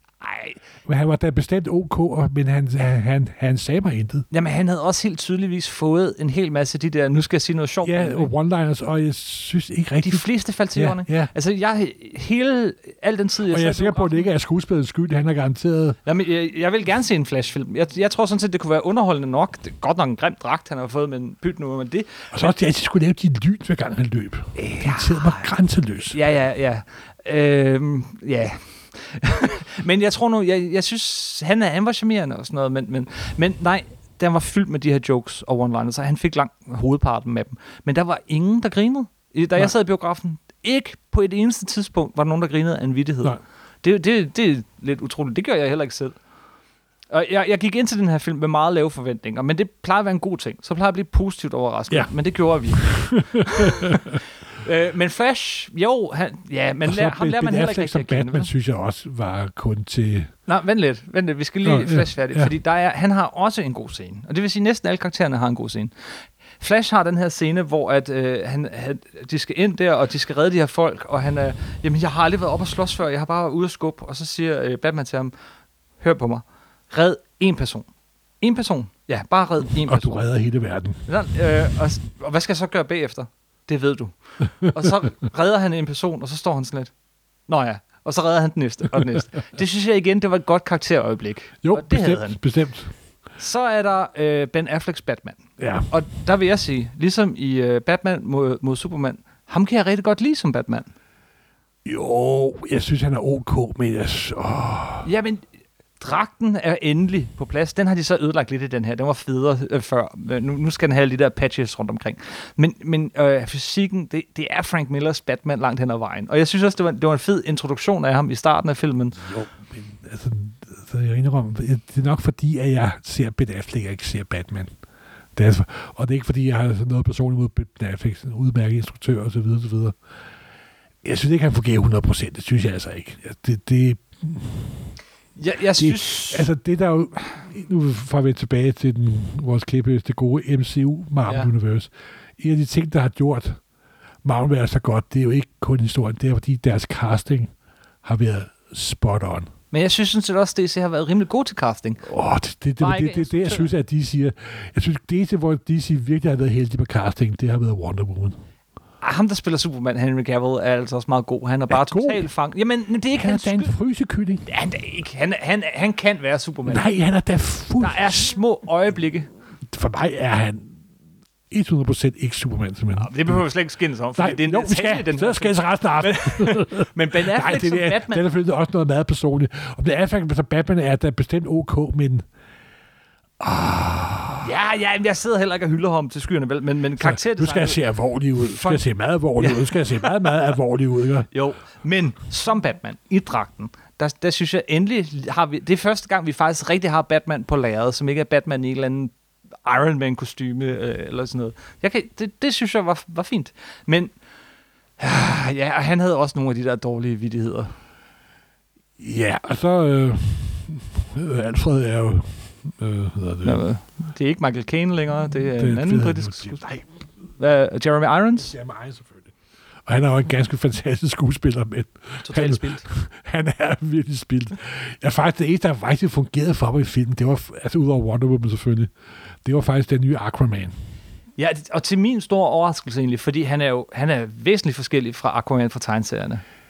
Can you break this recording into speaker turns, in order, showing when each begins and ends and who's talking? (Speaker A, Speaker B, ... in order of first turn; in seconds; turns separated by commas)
Speaker A: 0.2-0.6, Speaker B: 0.8-4.3, Speaker A: 4.3-8.3, Speaker B: 7.8-11.3, Speaker A: 10.1-14.3, Speaker B: 13.5-16.0, Speaker A: 16.1-22.3, Speaker B: 22.3-26.2, Speaker A: 24.6-25.5, Speaker A: 26.1-46.1, Speaker A: 47.1-58.5, Speaker B: 52.7-54.2, Speaker B: 56.9-60.3, Speaker A: 60.5-65.9, Speaker B: 61.6-62.5, Speaker A: 66.6-75.3, Speaker A: 76.0-77.9, Speaker A: 78.4-80.2, Speaker B: 79.8-81.0, Speaker A: 81.1-86.9, Speaker A: 87.5-92.4, Speaker B: 91.6-92.9, Speaker A: 93.4-100.9, Speaker B: 95.6-95.9, Speaker B: 101.8-105.1, Speaker A: 105.0-105.4, Speaker A: 106.0-119.3, Speaker B: 119.2-124.7, Speaker B: 125.3-130.0, Speaker B: 131.0-134.9, Speaker A: 135.4-136.5, Speaker B: 135.8-143.6, Speaker B: 144.2-147.5, Speaker B: 148.0-149.5, Speaker A: 149.7-152.0, Speaker B: 152.0-158.3, Speaker A: 152.8-153.7, Speaker A: 159.0-163.7, Speaker B: 161.7-162.2, Speaker B: 163.2-164.4, Speaker A: 164.4-166.8, Speaker B: 166.7-168.4, Speaker A: 167.8-169.3, Speaker B: 169.7-170.8, Speaker B: 171.5-173.4, Speaker A: 172.9-178.2, Speaker B: 174.2-182.2, Speaker B: 183.4-184.5, Speaker A: 184.4-187.8, Speaker B: 187.0-191.3, Speaker A: 188.4-188.8, Speaker A: 189.4-190.1, Speaker A: 191.3-199.1, Speaker A: 199.6-204.1, Speaker A: 205.0-207.7, Speaker B: 209.0-213.6, Speaker A: 213.4-216.6, Speaker B: 215.3-216.9, Speaker A: 217.4-218.5, Speaker B: 218.4-219.3, Speaker B: 219.8-228.9, Speaker A: 222.2-222.8, Speaker B: 229.4-230.7, Speaker A: 231.4-236.4